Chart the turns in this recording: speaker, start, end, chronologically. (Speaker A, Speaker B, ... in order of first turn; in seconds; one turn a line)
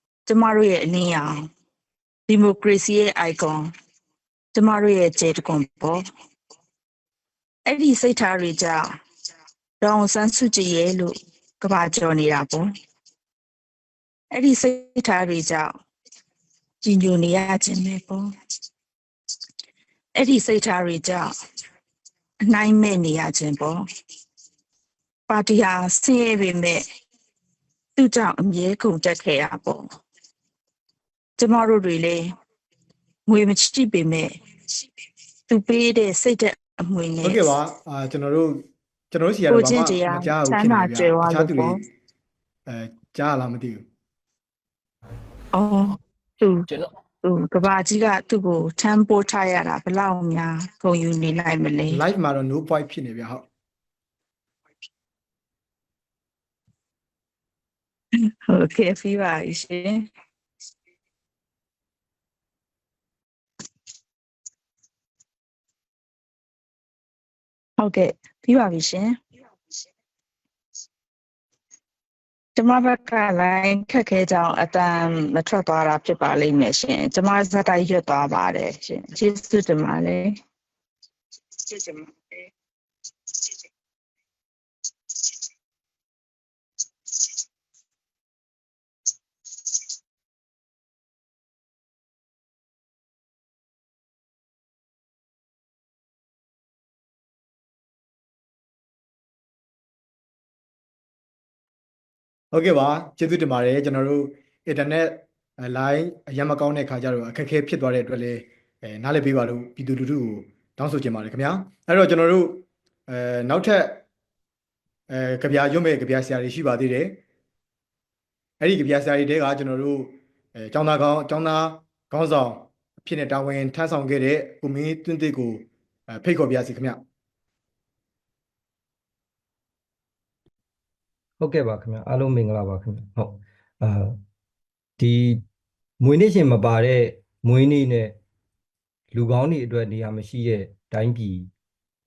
Speaker A: 0.2-1.5
Speaker A: 2.3-3.7
Speaker A: 4.5-6.0
Speaker A: 7.7-9.0
Speaker A: 9.8-12.7
Speaker A: 14.3-15.7
Speaker A: 16.8-18.3
Speaker A: 20.1-21.3
Speaker A: 22.5-23.9
Speaker A: 25.3-26.8
Speaker A: 27.9-29.9
Speaker A: 31.4-32.3
Speaker A: 33.2-34.4
Speaker A: 35.5-37.5
Speaker B: 37.2-41.8
Speaker A: 39.5-41.8
Speaker B: 42.7-43.8
Speaker A: 45.5-46.7
Speaker A: 47.2-52.0
Speaker B: 51.9-53.5
Speaker A: 58.2-60.0
Speaker A: 67.8-69.2
Speaker A: 72.5-80.4
Speaker A: 81.6-82.3
Speaker B: 102.5-114.0
Speaker B: 115.1-117.2
Speaker B: 118.6-127.0
Speaker C: 131.4-134.2
Speaker C: 135.0-135.4
Speaker C: 136.0-138.2
Speaker C: 139.1-141.5